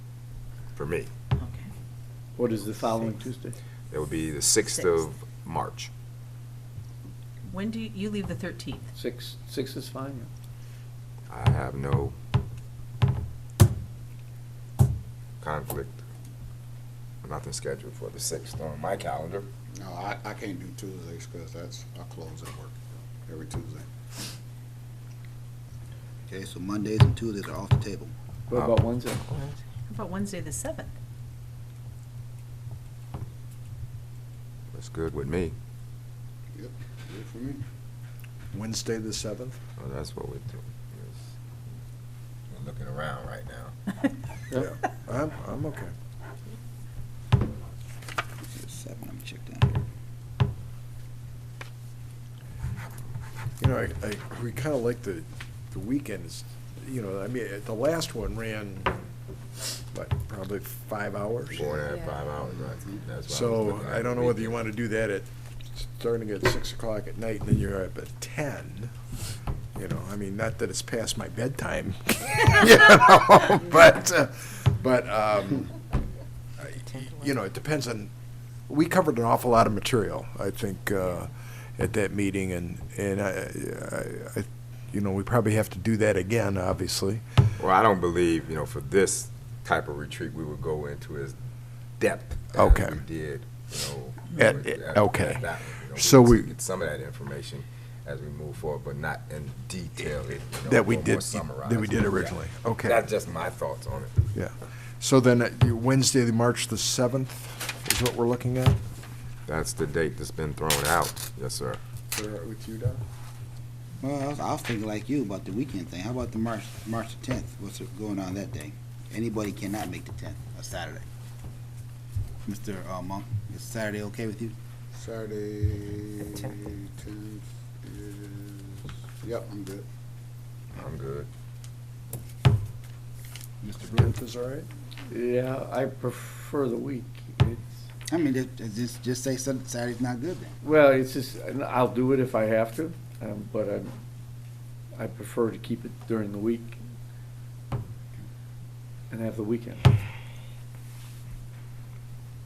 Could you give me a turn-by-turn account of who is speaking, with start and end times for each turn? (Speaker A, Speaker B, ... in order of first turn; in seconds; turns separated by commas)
Speaker A: 0.8-1.1, Speaker B: 1.4-1.7, Speaker C: 2.4-3.5, Speaker A: 3.9-5.9, Speaker B: 4.7-5.0, Speaker B: 7.5-8.9, Speaker C: 8.9-10.3, Speaker A: 11.3-12.1, Speaker A: 15.4-16.0, Speaker A: 17.2-19.5, Speaker D: 19.8-23.9, Speaker E: 26.3-28.1, Speaker C: 28.5-29.2, Speaker B: 29.9-30.9, Speaker A: 34.7-35.5, Speaker D: 36.5-37.6, Speaker F: 38.5-39.6, Speaker A: 39.8-41.2, Speaker A: 42.5-43.7, Speaker F: 44.5-45.9, Speaker E: 48.5-49.8, Speaker F: 53.6-58.9, Speaker F: 59.7-61.7, Speaker A: 61.5-64.6, Speaker F: 63.3-68.9, Speaker F: 69.8-75.7, Speaker F: 76.6-78.1, Speaker F: 78.7-87.2, Speaker A: 87.6-91.4, Speaker A: 92.0-104.2, Speaker F: 92.5-93.0, Speaker F: 94.3-96.5, Speaker F: 100.7-103.0, Speaker F: 104.3-108.8, Speaker A: 109.5-111.8, Speaker F: 112.1-113.0, Speaker E: 114.0-121.1, Speaker E: 122.5-124.5, Speaker D: 124.9-129.8, Speaker A: 130.7-131.3, Speaker E: 133.6-134.1, Speaker F: 133.9-134.7, Speaker C: 135.1-137.8, Speaker E: 138.1-140.6, Speaker C: 140.6-143.9, Speaker C: 144.9-146.8, Speaker C: 149.1-149.8